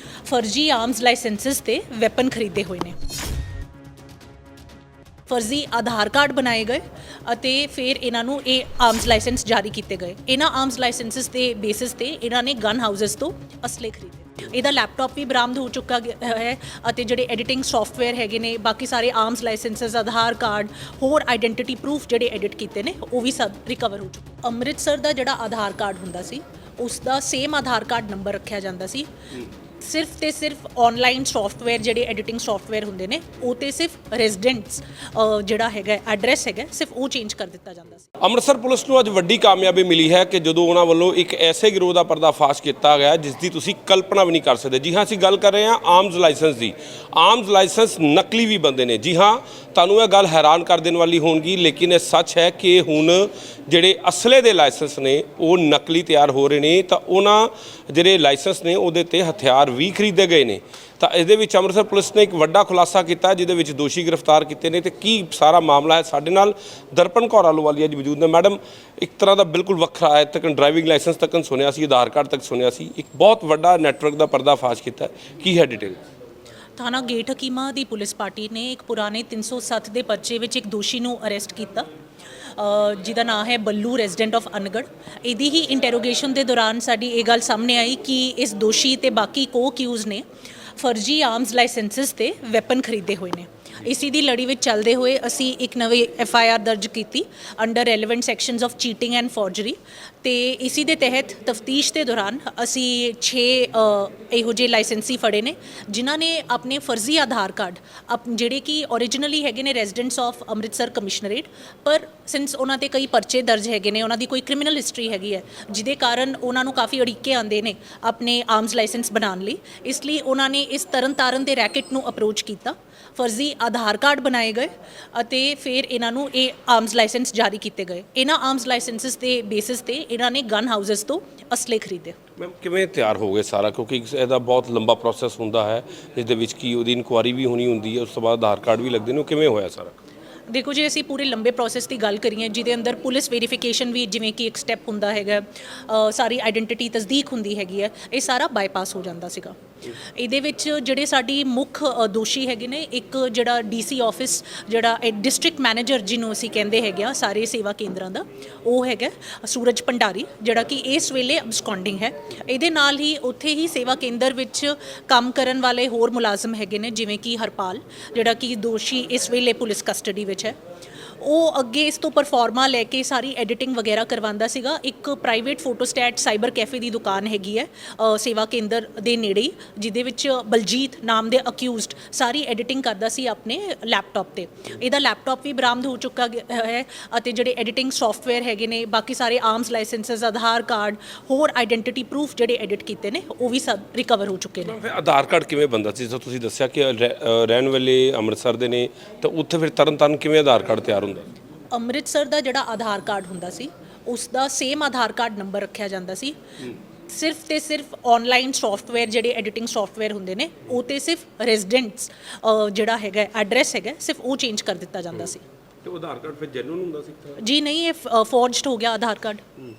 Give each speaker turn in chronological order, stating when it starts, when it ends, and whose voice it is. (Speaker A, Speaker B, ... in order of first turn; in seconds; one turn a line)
Speaker A: 0.3-3.0
Speaker A: 5.3-29.1
Speaker A: 29.8-38.1
Speaker B: 38.2-76.0
Speaker A: 76.8-81.9
Speaker A: 82.6-90.2
Speaker A: 90.8-132.2
Speaker B: 132.4-140.0
Speaker A: 140.5-170.6
Speaker A: 171.2-194.8
Speaker B: 194.6-201.3
Speaker A: 201.7-206.4
Speaker A: 207.1-215.4
Speaker B: 215.8-217.4
Speaker A: 217.4-219.4